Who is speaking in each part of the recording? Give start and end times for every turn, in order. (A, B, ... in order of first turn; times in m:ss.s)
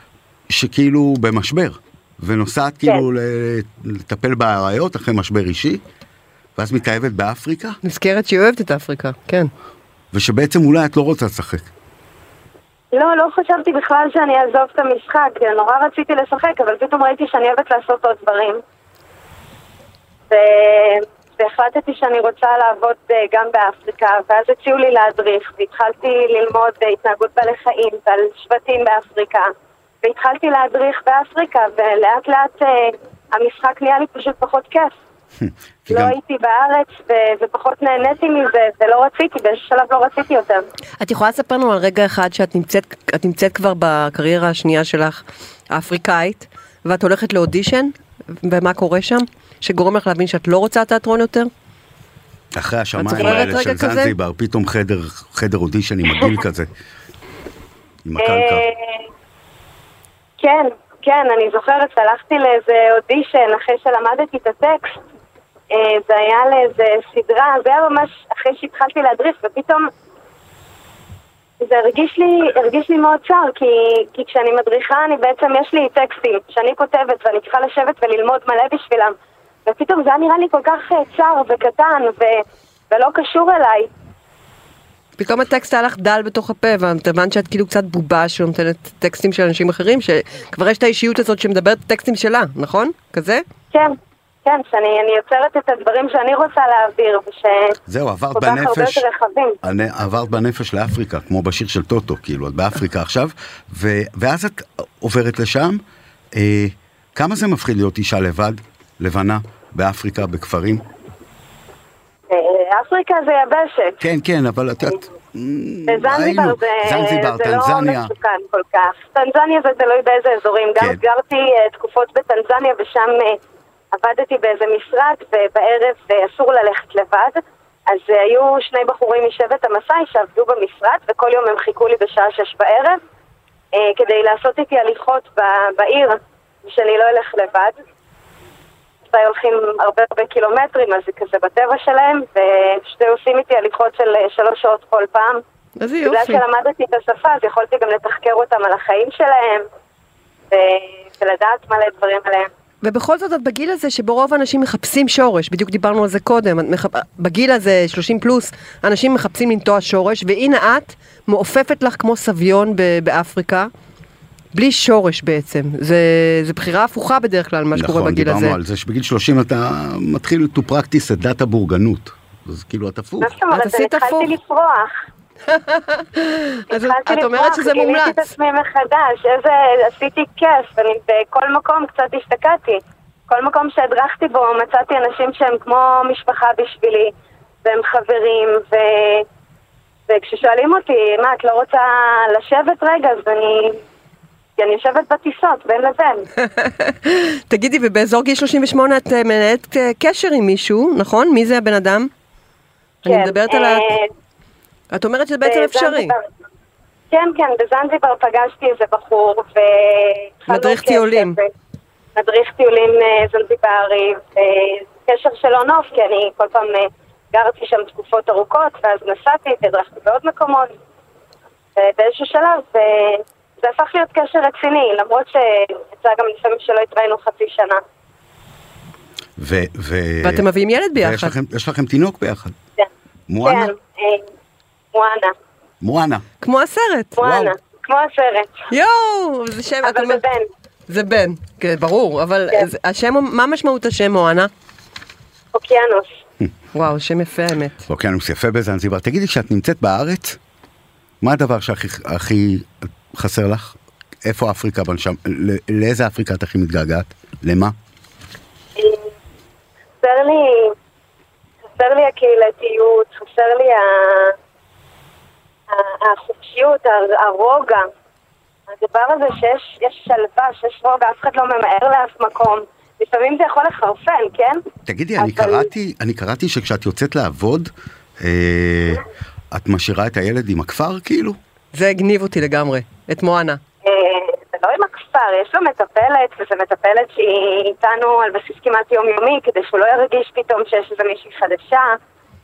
0:00.5-0:05.8 A
0:06.6-0:07.8 A
0:07.8-0:09.5 B
0:10.1-0:11.7 A
0:12.9-0:18.6 C
0:20.3-0:29.5 C
0:30.0-0:35.0 C
0:35.4-0:36.2 A
0:35.9-0:40.6 C
0:41.0-0:51.5 B
0:52.5-0:56.7 A
0:53.0-0:54.2 B
0:58.0-0:58.7 A
0:58.2-0:59.1 C
1:00.4-1:05.0 C
1:05.7-1:09.9 C
1:11.6-1:19.1 C
1:19.7-1:23.9 C
1:25.2-1:33.4 B
1:34.4-1:37.8 C
1:37.9-1:39.1 A
1:38.3-1:39.6 C
1:39.6-1:45.8 A
1:46.4-1:50.8 A
1:52.3-1:54.0 C
1:54.0-1:58.1 A
1:55.9-2:03.4 C
2:03.9-2:13.0 C
2:13.7-2:17.8 C
2:19.1-2:25.4 C
2:25.8-2:26.4 B
2:26.0-2:29.6 C
2:30.5-2:32.5 C
2:32.8-2:43.7 B
2:44.5-2:48.6 B
2:47.8-2:53.4 A
2:53.2-2:54.9 C
2:53.5-2:54.4 B
2:55.5-2:58.2 B
2:56.7-3:07.1 C
3:07.6-3:09.2 C
3:10.1-3:13.8 C
3:14.6-3:16.2 C
3:16.4-3:22.1 B
3:23.0-3:23.9 B
3:23.1-3:24.1 C
3:24.9-3:26.2 B
3:25.4-3:26.2 C
3:27.1-3:31.5 C
3:30.5-3:31.4 B
3:32.2-3:40.7 C
3:41.8-3:47.8 C
3:49.4-3:52.6 A
3:50.2-3:51.3 B
3:53.3-3:53.7 A
3:53.4-3:54.3 C
3:54.9-3:55.3 C
3:55.8-3:56.2 A
3:56.4-3:57.2 B
3:57.2-3:58.5 C
3:57.2-3:57.5 A
3:58.7-4:00.2 B
3:59.8-4:00.4 C
4:00.9-4:04.5 B
4:05.5-4:06.1 C
4:06.7-4:07.8 B
4:07.9-4:10.4 A
4:11.2-4:17.7 A
4:18.8-4:19.1 C
4:20.0-4:20.7 C
4:21.8-4:24.4 C
4:25.7-4:27.8 C
4:28.7-4:34.6 C
4:34.9-4:41.4 A
4:35.2-4:35.7 C
4:41.7-4:43.6 B
4:43.8-4:51.9 C